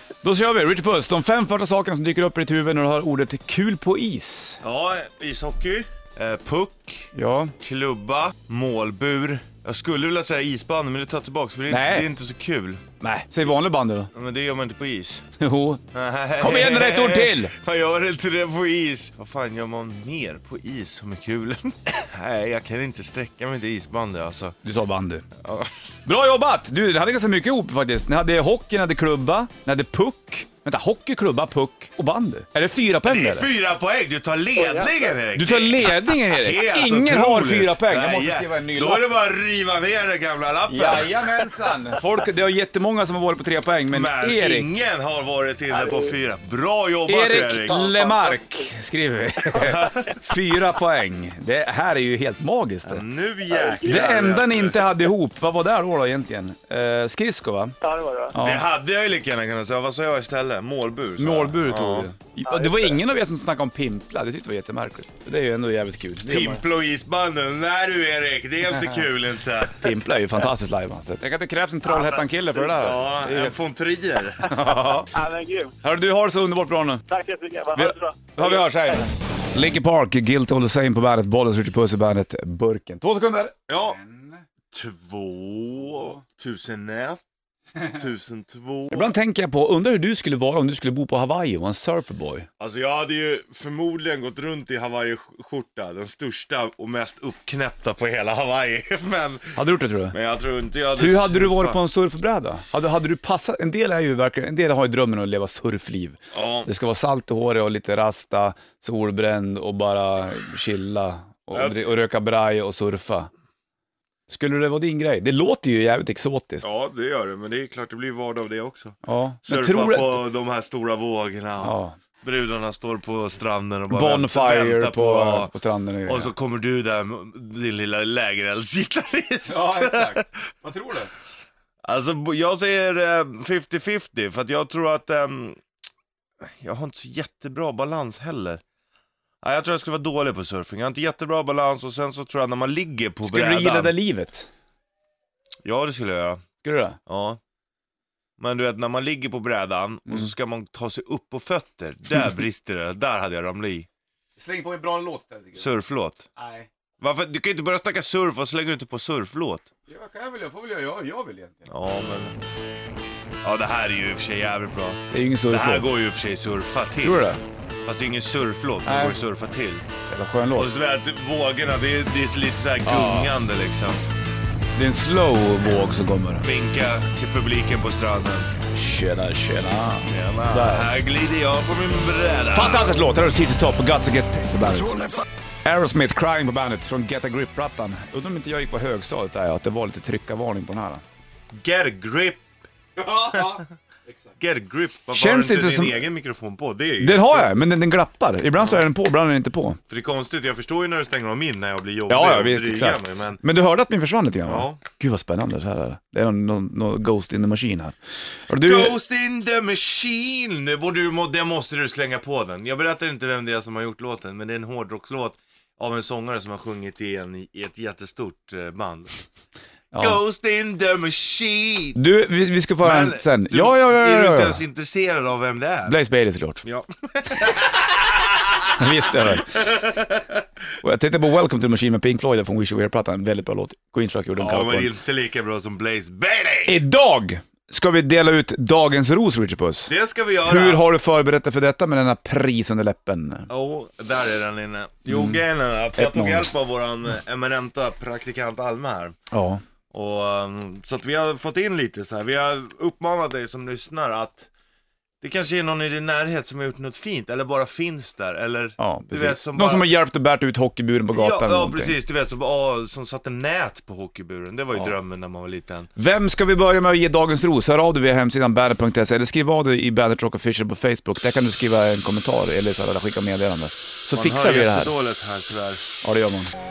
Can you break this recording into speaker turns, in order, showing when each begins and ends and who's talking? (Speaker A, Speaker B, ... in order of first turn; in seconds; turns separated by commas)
Speaker A: 0.2-4.6, Speaker B: 4.6-7.1, Speaker A: 7.1-7.5, Speaker B: 7.6-12.8, Speaker A: 11.7-12.1, Speaker A: 13.0-14.1, Speaker B: 14.1-15.3, Speaker A: 15.4-15.8, Speaker B: 15.9-24.6, Speaker A: 16.4-17.5, Speaker A: 24.6-25.2, Speaker B: 25.4-25.7, Speaker A: 26.1-33.5, Speaker B: 33.0-41.2, Speaker C: 34.5-35.2, Speaker A: 35.3-39.0, Speaker A: 40.7-44.7, Speaker B: 43.9-47.9, Speaker C: 45.7-46.2, Speaker A: 47.1-53.0, Speaker C: 47.7-48.7, Speaker B: 49.6-50.1, Speaker B: 52.9-54.8, Speaker C: 53.5-54.0, Speaker A: 53.8-57.8, Speaker C: 57.8-58.3, Speaker A: 58.3-58.6, Speaker B: 58.4-62.1, Speaker A: 61.2-66.6, Speaker C: 62.5-63.0, Speaker B: 66.2-69.8, Speaker A: 69.8-73.5, Speaker C: 71.8-72.7, Speaker B: 72.6-74.5, Speaker A: 74.4-75.1, Speaker C: 75.1-75.7, Speaker A: 75.8-77.0, Speaker C: 77.1-79.0, Speaker A: 77.8-84.4, Speaker B: 83.7-84.0, Speaker B: 84.7-87.2, Speaker B: 87.9-89.1, Speaker A: 88.9-92.5, Speaker B: 92.6-99.6, Speaker A: 99.5-100.1, Speaker B: 100.1-101.8, Speaker A: 101.0-113.3, Speaker B: 106.3-106.7, Speaker B: 111.5-111.9, Speaker A: 114.3-116.7, Speaker B: 116.6-125.5, Speaker A: 119.0-120.2, Speaker A: 121.6-122.0, Speaker A: 123.9-126.3, Speaker B: 126.1-130.3, Speaker A: 129.5-131.1, Speaker B: 131.8-135.6, Speaker B: 136.4-138.6, Speaker B: 139.4-143.9, Speaker A: 143.2-144.5, Speaker B: 145.6-146.4, Speaker A: 146.6-147.0, Speaker B: 147.1-147.4, Speaker B: 148.4-153.9, Speaker A: 150.1-150.3, Speaker A: 154.4-155.7, Speaker B: 155.6-156.2, Speaker A: 156.3-156.7, Speaker B: 157.0-159.7, Speaker A: 159.9-161.7, Speaker B: 161.7-162.4, Speaker B: 163.4-167.2, Speaker A: 165.1-165.9, Speaker A: 167.0-167.4, Speaker B: 167.8-169.8, Speaker A: 168.8-169.2, Speaker A: 170.0-170.7, Speaker B: 170.6-174.0, Speaker A: 172.8-173.3, Speaker A: 174.8-176.4, Speaker B: 176.4-178.5, Speaker A: 178.6-180.9, Speaker B: 180.1-183.0, Speaker A: 182.5-185.0, Speaker B: 184.7-185.2, Speaker A: 185.6-191.0, Speaker B: 191.5-192.4, Speaker A: 193.0-194.3, Speaker B: 193.3-193.7, Speaker B: 194.4-197.7, Speaker A: 195.1-196.0, Speaker A: 197.0-199.8, Speaker B: 198.6-198.8, Speaker B: 199.9-203.4, Speaker A: 202.1-207.9, Speaker B: 204.4-204.8, Speaker A: 208.5-209.0, Speaker B: 208.5-219.1, Speaker A: 219.9-220.2, Speaker B: 220.0-222.0, Speaker A: 221.9-224.6, Speaker B: 222.8-226.0, Speaker A: 225.8-226.6, Speaker B: 226.6-230.4, Speaker A: 228.7-229.6, Speaker A: 230.8-234.9, Speaker B: 234.3-236.8, Speaker A: 236.7-239.9, Speaker B: 239.9-240.8, Speaker A: 240.4-243.5, Speaker B: 243.5-249.2, Speaker A: 245.1-245.4, Speaker A: 246.0-246.5, Speaker A: 249.3-249.6, Speaker B: 249.9-254.5, Speaker B: 255.2-259.9, Speaker A: 258.8-261.9, Speaker B: 261.1-265.9, Speaker A: 265.9-274.9, Speaker B: 274.1-275.9, Speaker A: 276.0-276.5